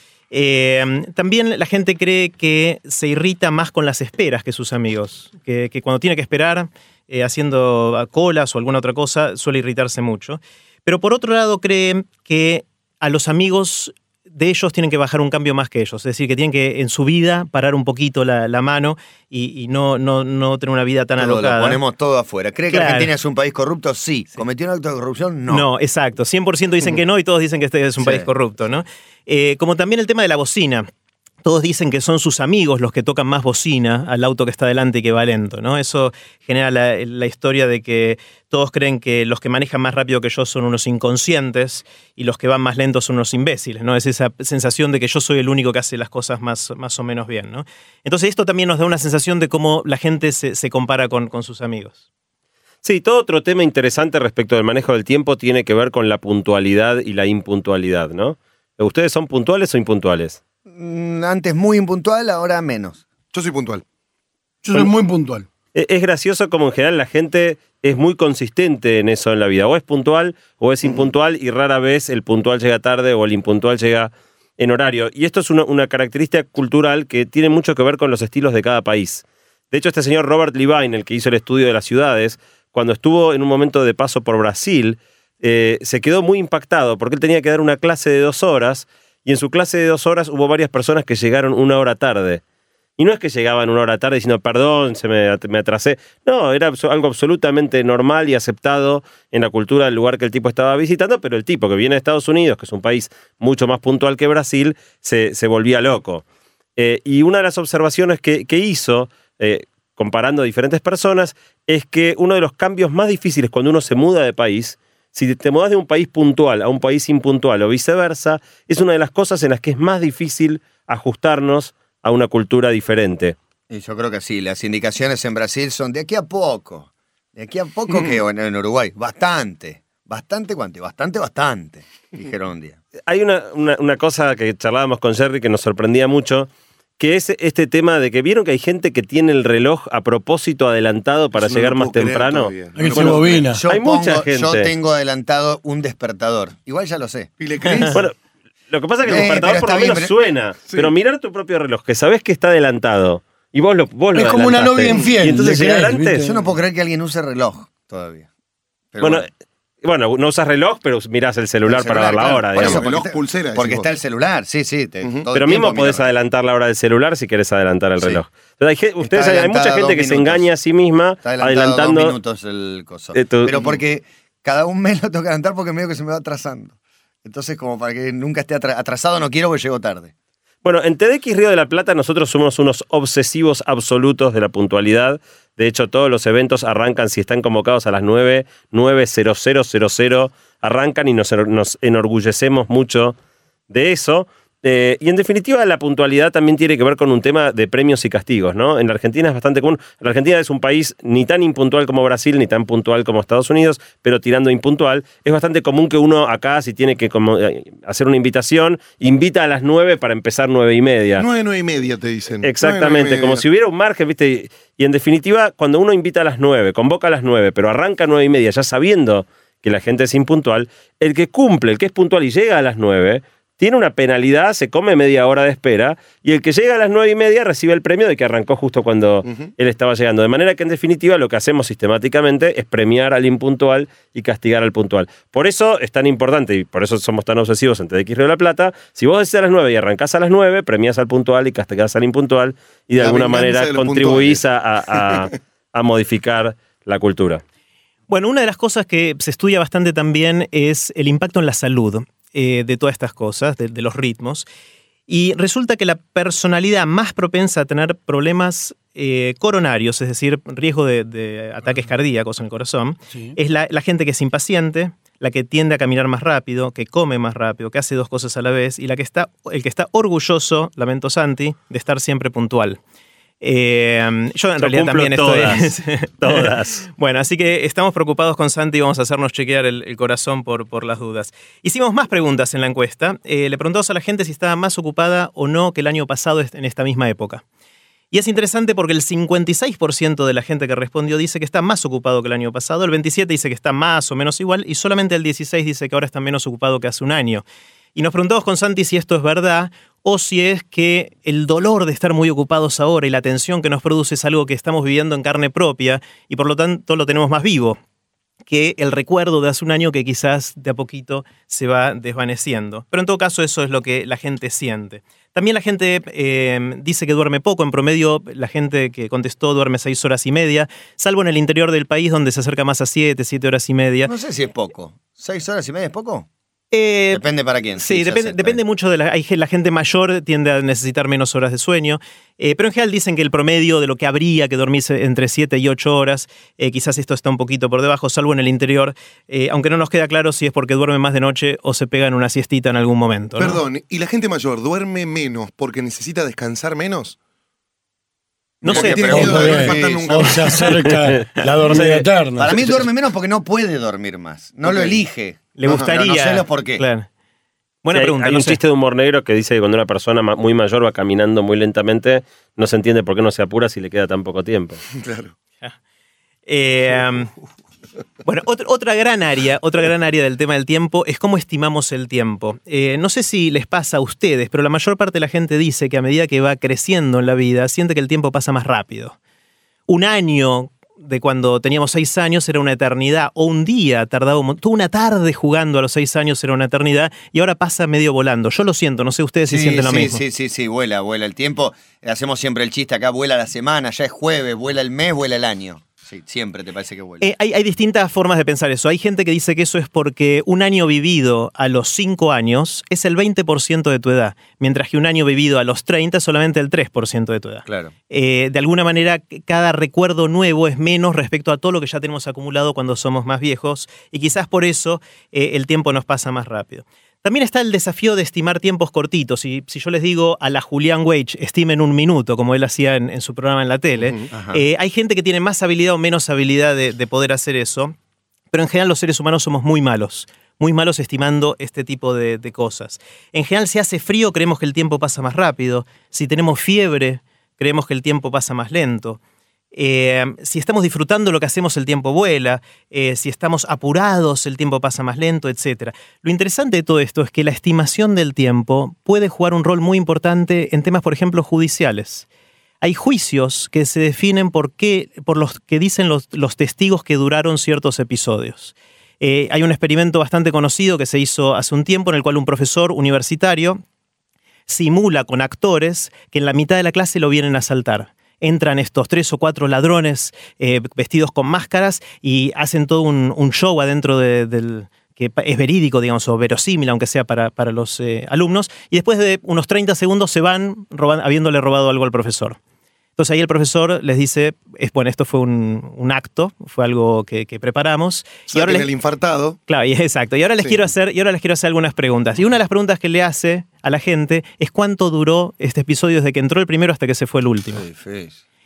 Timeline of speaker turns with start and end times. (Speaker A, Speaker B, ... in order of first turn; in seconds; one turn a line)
Speaker A: 0.3-21.8
Speaker B: 21.2-25.7
Speaker A: 22.7-23.1
Speaker A: 25.5-30.9
Speaker B: 28.0-28.3
Speaker A: 31.4-52.0
Speaker C: 52.8-60.4
Speaker B: 60.7-63.0
Speaker D: 63.3-63.8
Speaker E: 64.6-65.5
Speaker C: 65.8-92.4
Speaker C: 93.0-106.2
Speaker C: 106.8-123.4
Speaker B: 123.7-132.8
Speaker C: 133.1-144.7
Speaker D: 141.3-143.5
Speaker E: 142.8-143.6
Speaker B: 143.5-147.3
Speaker D: 147.4-148.1
Speaker C: 148.7-156.2
Speaker B: 149.0-150.1
Speaker D: 150.7-150.9
Speaker E: 154.2-156.4
Speaker B: 156.2-158.3
Speaker B: 158.9-159.3
Speaker C: 159.0-159.3
Speaker C: 159.8-162.9
Speaker B: 161.7-166.1
Speaker D: 162.5-163.9
Speaker D: 165.0-165.3
Speaker C: 165.3-172.1
Speaker B: 169.0-170.5
Speaker B: 171.2-180.1
Speaker C: 173.1-173.6
Speaker C: 180.6-193.2
Speaker C: 193.7-211.3
Speaker D: 211.2-213.4
Speaker C: 212.4-247.4
Speaker D: 243.0-245.3
Speaker A: 248.1-254.5
Speaker A: 255.1-272.8
Speaker A: 273.4-287.4
Speaker C: 274.6-276.9
Speaker A: 288.1-297.4
Speaker A: 297.9-307.8
Speaker A: 308.5-324.1
Speaker B: 324.1-326.3
Speaker A: 326.7-327.2
Speaker B: 327.1-328.6
Speaker A: 327.8-343.6
Speaker D: 343.4-347.2
Speaker A: 348.6-349.5
Speaker B: 348.6-350.5
Speaker D: 348.7-350.9
Speaker E: 349.1-352.8
Speaker A: 351.4-352.0
Speaker B: 352.4-356.8
Speaker D: 354.6-355.0
Speaker A: 355.6-357.1
Speaker A: 357.8-358.6
Speaker C: 357.9-364.8
Speaker D: 365.0-365.3
Speaker A: 366.5-367.3
Speaker A: 368.2-379.2
Speaker A: 379.9-390.2
Speaker B: 389.5-397.3
Speaker A: 397.2-427.9
Speaker B: 407.7-407.9
Speaker B: 424.3-424.6
Speaker A: 428.5-439.2
Speaker A: 439.7-452.3
Speaker A: 452.8-463.8
Speaker A: 464.7-482.6
Speaker A: 483.2-488.9
Speaker D: 488.5-489.6
Speaker A: 489.7-497.9
Speaker B: 497.8-498.4